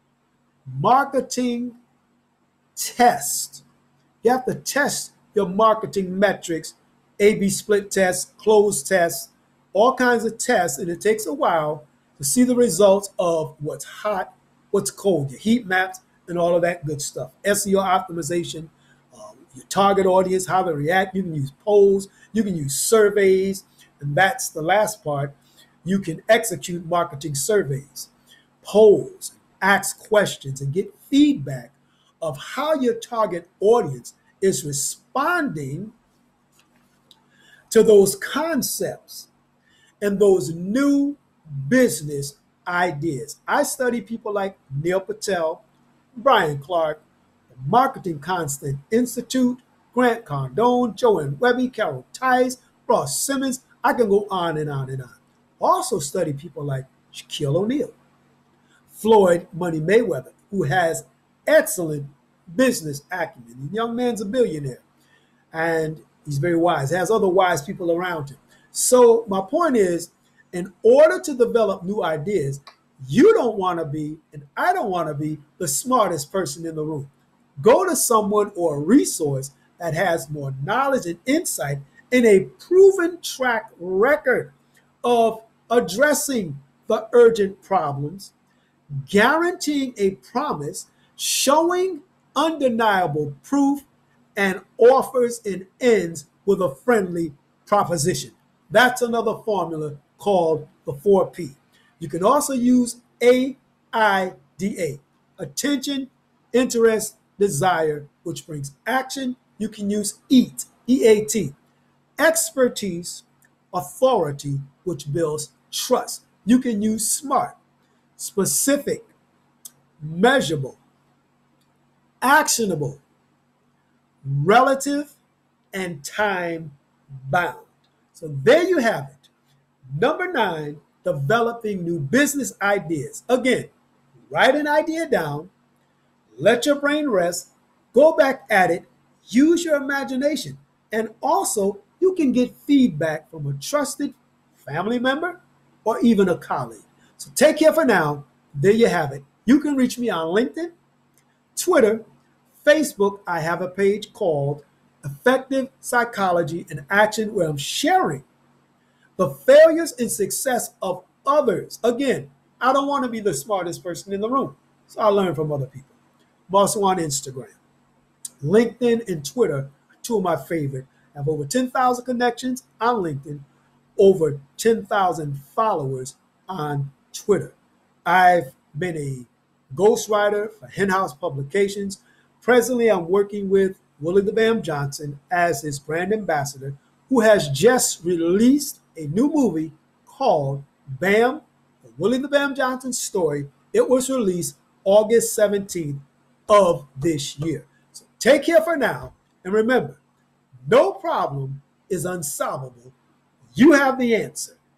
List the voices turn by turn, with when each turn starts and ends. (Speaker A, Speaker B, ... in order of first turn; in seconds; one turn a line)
Speaker A: 0.7-1.8
Speaker A: 2.8-3.6
Speaker A: 4.2-28.1
Speaker A: 28.6-35.9
Speaker A: 37.7-39.3
Speaker A: 40.0-45.6
Speaker A: 46.2-58.0
Speaker A: 58.9-64.8
Speaker A: 65.5-88.3
Speaker A: 89.0-111.5
Speaker A: 112.2-117.6
Speaker A: 118.2-119.1
Speaker A: 120.0-120.8
Speaker A: 122.2-123.0
Speaker A: 124.2-125.2
Speaker A: 125.7-126.8
Speaker A: 127.3-129.3
Speaker A: 129.9-133.7
Speaker A: 134.3-135.5
Speaker A: 136.3-150.7
Speaker A: 151.6-152.1
Speaker A: 152.6-158.2
Speaker A: 159.2-165.9
Speaker A: 166.5-167.6
Speaker A: 168.4-173.4
Speaker A: 174.0-200.0
Speaker A: 200.7-202.9
Speaker A: 203.6-204.6